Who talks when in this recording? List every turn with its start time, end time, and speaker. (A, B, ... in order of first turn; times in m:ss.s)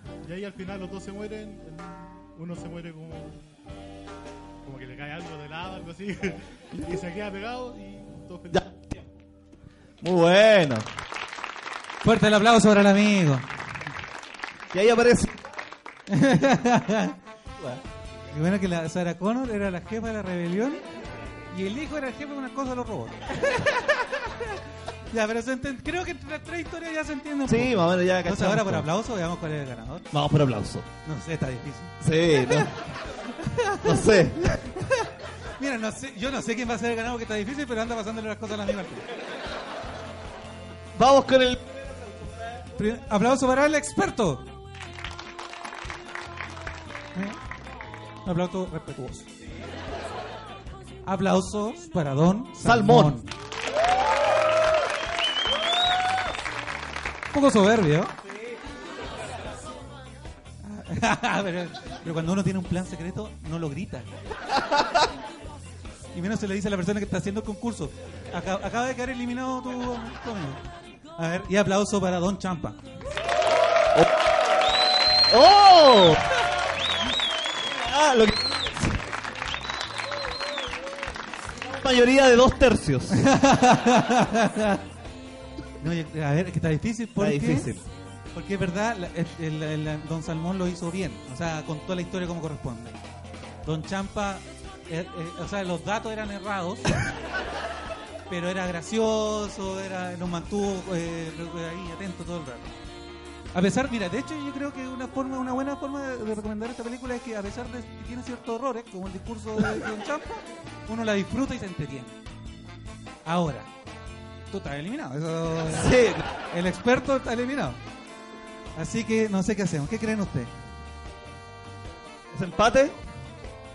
0:00.2-0:03.5 A
0:04.6-0:08.7 A
0:06.8-0:07.0 B
0:08.5-0:09.0 B
0:10.0-0:10.9 B
0:12.0-0:13.5 C
0:14.7-0:15.4 B
0:16.1-0:17.8 C
0:18.3-0:20.8 C
0:21.5-0:24.6 C
0:25.1-0:30.1 C
0:27.5-0:28.9 B
0:30.1-0:30.9 B
0:31.0-0:32.7 C
0:32.0-0:32.8 B
0:33.2-0:39.0 C
0:33.8-0:34.6 B
0:41.0-0:42.3 B
0:42.8-0:44.5 C
0:47.1-0:47.4 C
0:48.2-0:49.3 C
0:51.0-0:53.3 C
0:52.6-0:53.2 B
0:57.3-0:58.2 C
1:00.6-1:04.1 C
1:06.1-1:10.6 C
1:11.2-1:12.8 C
1:13.9-1:14.4 B
1:15.3-1:16.4 B
1:17.6-1:19.0 B
1:21.6-1:23.3 B
1:23.1-1:24.8 C
1:25.8-1:27.7 C
1:27.2-1:27.9 B
1:28.3-1:33.0 C
1:33.6-1:37.0 C
1:38.3-1:42.8 C
1:43.5-1:52.2 C
1:53.2-1:53.7 C
1:54.5-1:57.8 C
1:55.7-1:56.3 B
1:58.8-2:00.5 C
2:02.3-2:03.0 B